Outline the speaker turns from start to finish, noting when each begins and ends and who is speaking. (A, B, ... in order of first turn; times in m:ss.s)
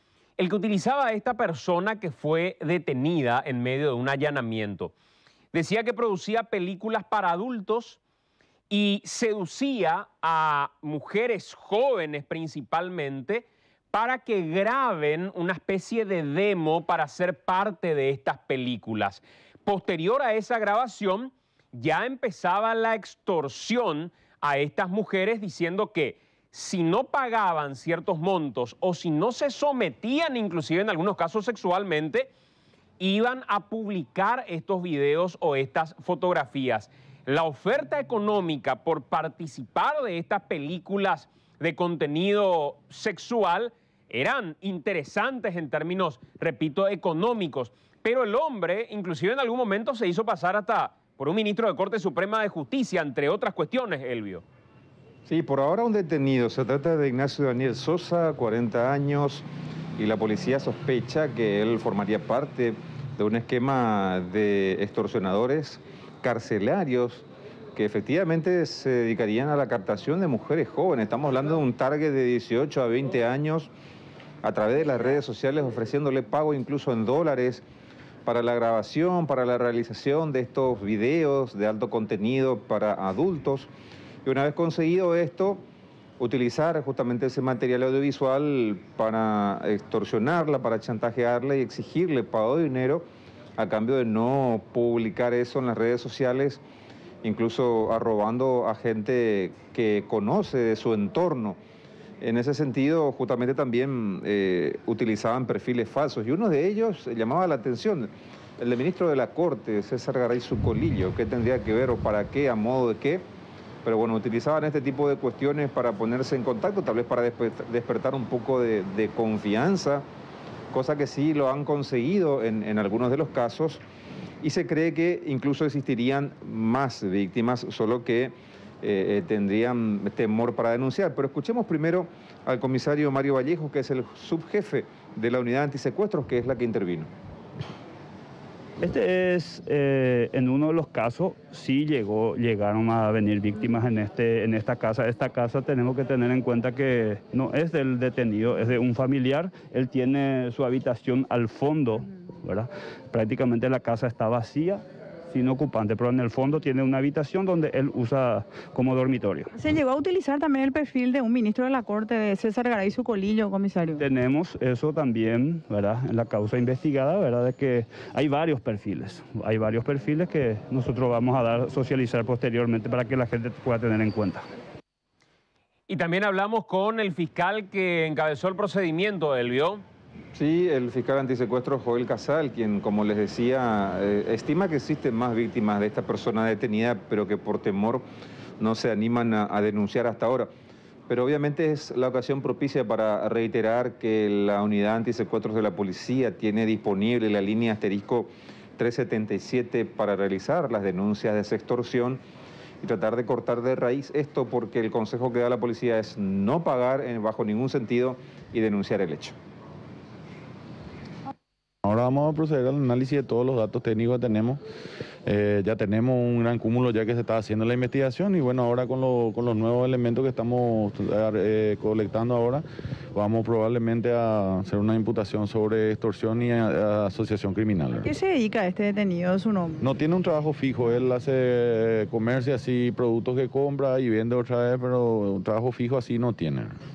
0:00.4-0:04.9 A
0:05.5-0:08.0 A
0:08.7-0:32.3 A
0:33.0-0:54.4 A
0:55.2-1:13.7 B
1:14.4-1:17.6 B
1:18.2-1:23.7 B
1:24.2-1:25.6 B
1:26.2-1:33.0 B
1:33.6-1:36.6 B
1:37.2-1:41.6 B
1:42.2-1:53.2 B
1:53.8-2:00.0 B
2:00.7-2:03.8 B
2:04.4-2:17.1 B
2:18.8-2:39.5 C
2:39.5-2:44.0 D
2:44.0-2:54.4 C
2:55.9-2:59.8 A
3:00.3-3:08.0 B
3:08.6-3:10.5 B
3:11.1-3:22.2 B
3:22.8-3:29.4 B
3:31.8-3:34.6 E
3:35.2-3:48.1 E
3:48.0-3:49.8 D
3:49.8-3:56.7 E